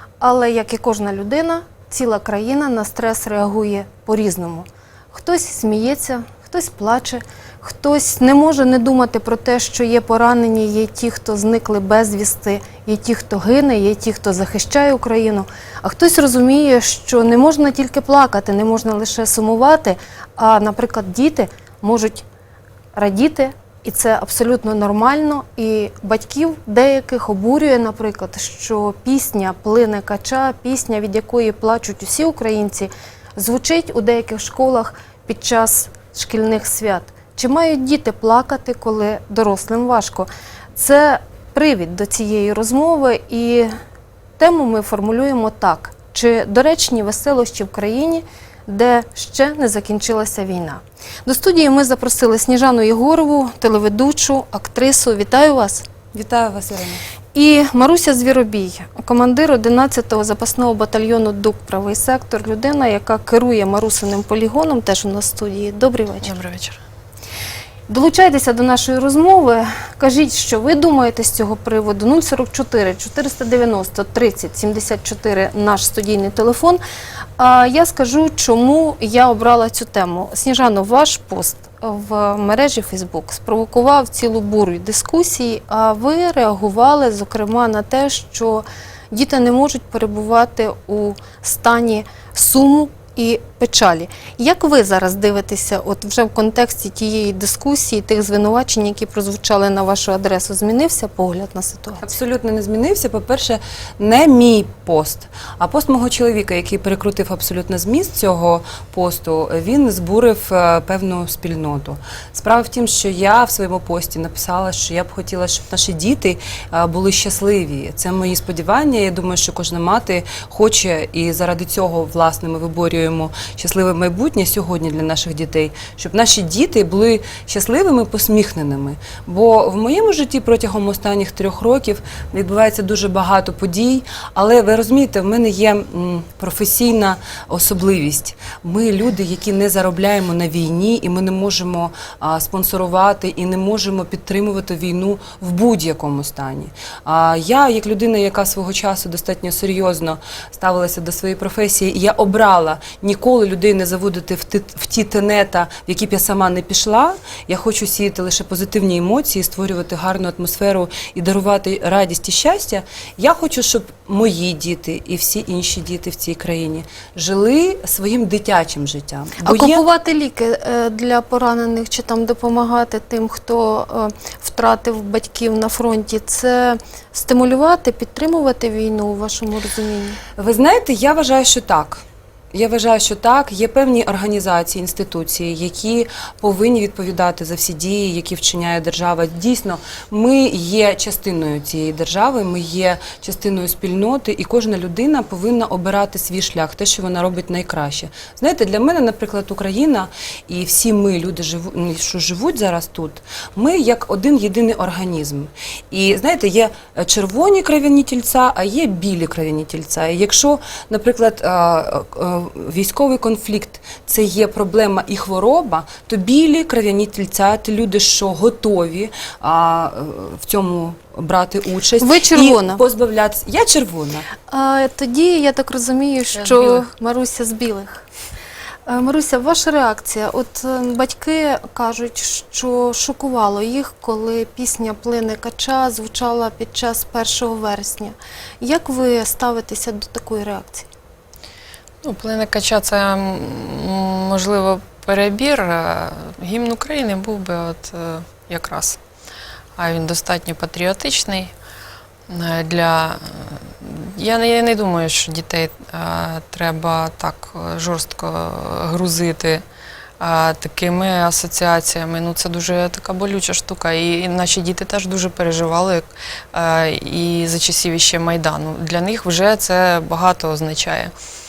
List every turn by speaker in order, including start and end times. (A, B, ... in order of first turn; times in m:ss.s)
0:00.2-0:22.2 A
0:23.0-0:43.7 A
0:44.4-0:55.9 A
0:56.1-0:57.0 B
0:57.3-1:06.3 A
1:06.2-1:06.8 C
1:07.9-1:16.8 A
1:17.4-1:42.0 A
1:42.0-2:49.8 B
2:49.4-3:00.2 A
3:00.4-3:44.3 B
3:42.0-3:42.8 A
3:44.5-3:48.1 A
3:46.4-3:46.8 C
3:48.9-4:00.9 A
4:02.0-4:09.0 C
4:09.8-4:11.5 C
4:12.3-4:19.6 C
4:20.2-4:31.1 C